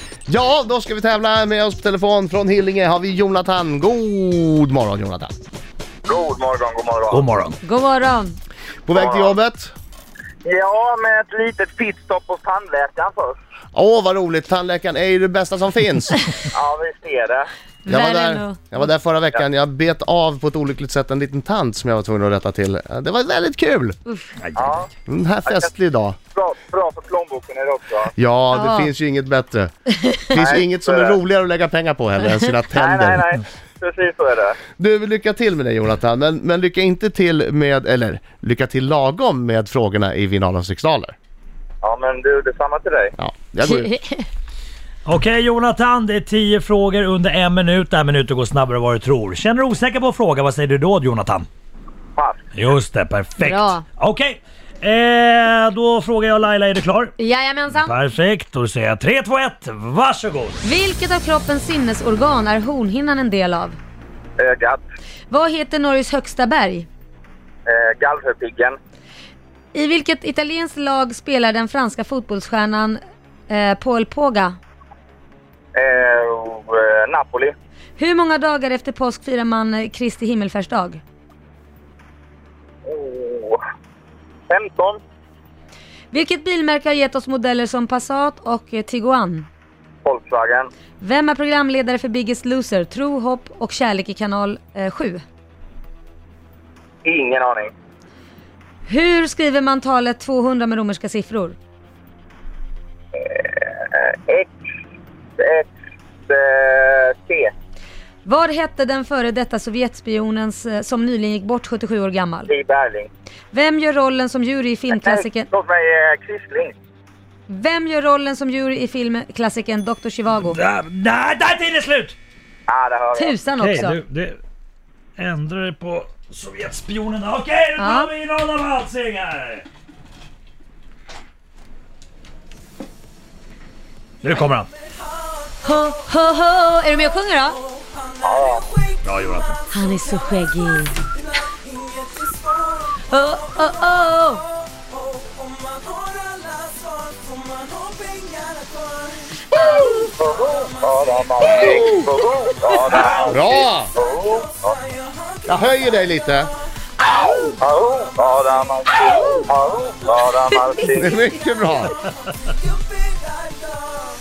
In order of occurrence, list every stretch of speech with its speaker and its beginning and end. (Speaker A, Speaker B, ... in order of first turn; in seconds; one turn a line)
Speaker A: 0.3-5.3
Speaker B: 6.1-7.2
Speaker C: 7.1-7.6
Speaker D: 7.6-8.4
Speaker A: 8.8-9.7
Speaker B: 8.9-9.3
Speaker B: 10.4-13.4
Speaker A: 13.7-16.2
Speaker B: 16.5-17.5
Speaker D: 17.9-18.7
Speaker A: 17.9-24.0
Speaker C: 24.4-24.8
Speaker B: 24.6-24.9
Speaker A: 25.1-26.2
Speaker B: 26.3-28.1
Speaker A: 28.2-33.3
Speaker D: 28.5-28.9
Speaker B: 30.3-31.2
Speaker B: 32.7-34.6
Speaker A: 34.8-41.1
Speaker B: 41.8-43.1
Speaker A: 43.2-43.9
Speaker D: 43.6-44.3
Speaker C: 45.0-51.5
Speaker C: 52.5-57.2
Speaker D: 53.4-53.8
Speaker D: 57.2-58.0
Speaker C: 57.7-60.6
Speaker D: 60.6-63.8
Speaker B: 64.4-64.8
Speaker D: 65.3-66.9
Speaker B: 67.7-68.8
Speaker D: 69.7-74.6
Speaker B: 75.8-77.5
Speaker D: 78.0-81.0
Speaker B: 82.9-83.6
Speaker B: 84.5-85.0
Speaker D: 86.1-89.5
Speaker B: 90.0-90.7
Speaker D: 91.0-95.2
Speaker B: 97.0-97.7
Speaker D: 98.9-101.6
Speaker B: 103.2-104.5
Speaker B: 105.4-105.7
Speaker B: 106.3-107.5
Speaker D: 108.2-112.5
Speaker B: 112.5-113.1
Speaker D: 113.5-115.5
Speaker B: 114.9-116.8
Speaker D: 117.5-120.6
Speaker C: 120.4-122.2
Speaker B: 122.7-123.4
Speaker D: 123.2-124.0
Speaker C: 123.6-124.4
Speaker C: 125.2-129.7
Speaker D: 127.8-128.1
Speaker C: 134.2-134.7
Speaker D: 135.6-137.6
Speaker B: 138.2-138.7
Speaker C: 139.0-139.6
Speaker D: 139.7-141.0
Speaker D: 143.0-144.5
Speaker D: 149.5-150.0
Speaker B: 150.1-153.4
Speaker C: 152.9-153.4
Speaker A: 153.2-153.9
Speaker B: 153.9-154.8
Speaker A: 155.4-156.5
Speaker B: 157.6-161.2
Speaker A: 160.9-162.0